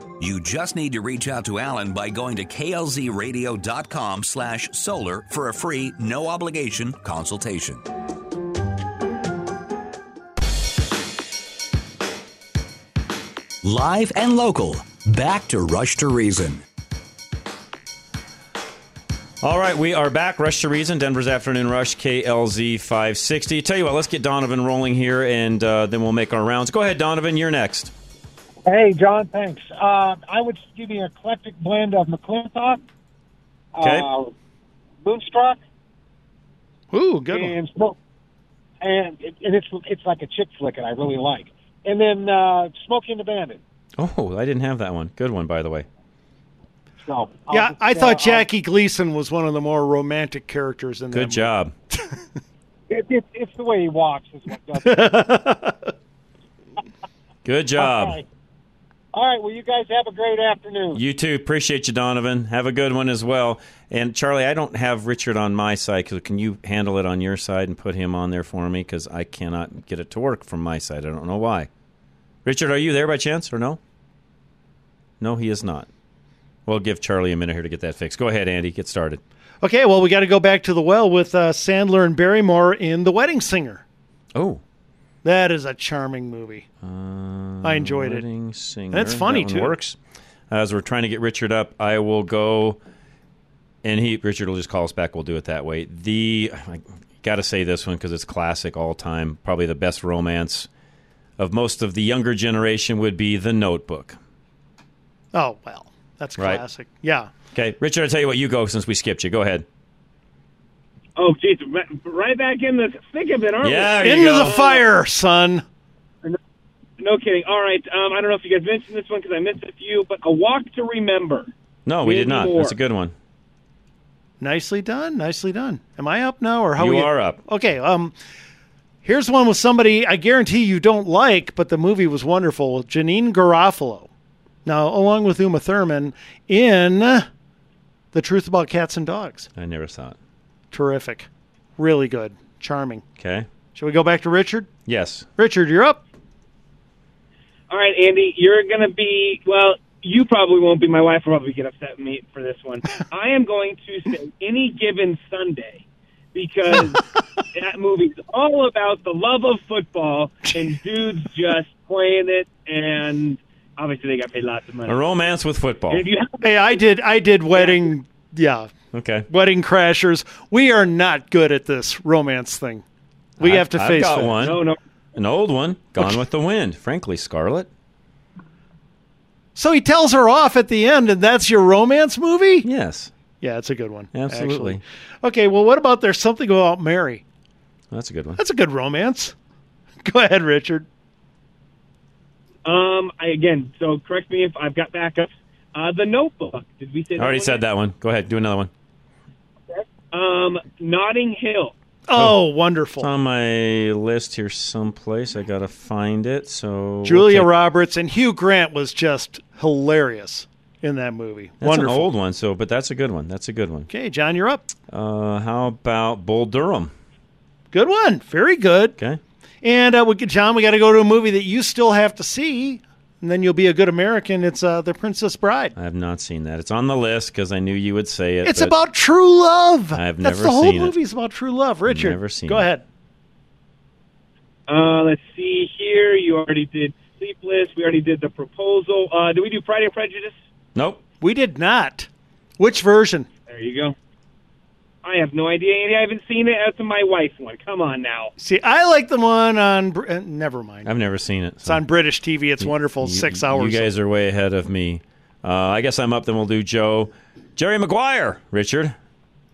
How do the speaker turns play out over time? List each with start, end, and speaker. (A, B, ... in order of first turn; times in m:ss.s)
0:00.2-0:07.8 A
0:13.6-0:16.6 B
0:19.4-0:27.9 C
0:28.6-0:32.8 D
0:33.7-0:34.3 D
0:33.8-0:34.1 C
0:35.0-0:35.6 D
0:36.9-0:37.6 E
0:37.3-0:37.9 D
0:38.8-0:43.6 D
0:44.0-0:45.8 C
0:47.0-0:48.4 D
0:47.5-0:52.2 E
0:51.1-0:51.7 C
0:52.9-0:55.1 D
0:54.8-0:55.9 E
0:57.4-0:58.2 C
0:57.8-0:58.2 D
0:59.1-1:01.0 D
1:00.9-1:11.7 C
1:12.4-1:13.8 C
1:15.2-1:15.9 C
1:16.7-1:19.2 C
1:19.6-1:23.8 E
1:24.3-1:24.6 C
1:25.2-1:26.6 E
1:26.8-1:30.0 C
1:27.6-1:28.2 E
1:28.9-1:29.7 E
1:30.5-1:32.8 C
1:33.8-1:40.7 C
1:41.4-1:44.2 C
1:45.3-1:47.3 E
1:46.4-1:46.6 C
1:47.5-1:49.6 C
1:51.2-1:54.8 F
1:53.6-1:54.6 C
1:54.0-1:55.6 E
1:57.0-2:01.5 F
2:01.8-2:03.1 C
2:02.0-2:02.8 F
2:04.4-2:08.1 E
2:06.8-2:07.4 C
2:09.0-2:14.1 E
2:14.6-2:17.3 E
2:18.1-2:19.5 E
2:19.6-2:20.2 C
2:20.7-2:23.0 E
2:23.2-2:23.5 C
2:23.7-2:24.7 E
2:24.9-2:25.2 C
2:25.4-2:26.0 E
2:27.7-2:37.0 F
2:37.5-2:45.0 F
2:44.9-2:46.0 C
2:45.9-2:46.4 F
2:46.4-2:48.7 E
2:47.5-2:47.9 F
2:48.9-2:49.3 C
2:49.3-2:52.8 E
2:53.4-2:54.4 E
2:53.4-2:54.6 C
2:54.4-2:54.8 F
2:55.1-2:57.7 C
2:59.5-3:02.7 E
3:02.6-3:03.1 C
3:03.4-3:07.2 E
3:04.1-3:04.8 C
3:07.9-3:08.4 C
3:08.4-3:09.3 E
3:10.0-3:10.8 E
3:12.6-3:17.6 F
3:17.2-3:18.7 C
3:19.7-3:21.7 F
3:22.1-3:23.1 E
3:22.1-3:22.4 C
3:23.0-3:27.5 C
3:27.0-3:32.0 E
3:31.6-3:33.9 C
3:33.9-3:34.6 E
3:34.9-3:36.9 C
3:37.7-3:39.0 E
3:39.6-3:45.7 E
3:45.8-3:48.8 C
3:48.4-3:52.8 E
3:49.9-3:51.0 C
3:51.8-3:52.7 C
3:54.7-4:00.4 F
4:00.7-4:01.0 C
4:01.2-4:03.3 E
4:03.5-4:03.9 F
4:05.0-4:08.3 F
4:08.4-4:10.9 E
4:10.8-4:11.8 C
4:11.6-4:13.9 E
4:12.6-4:18.9 C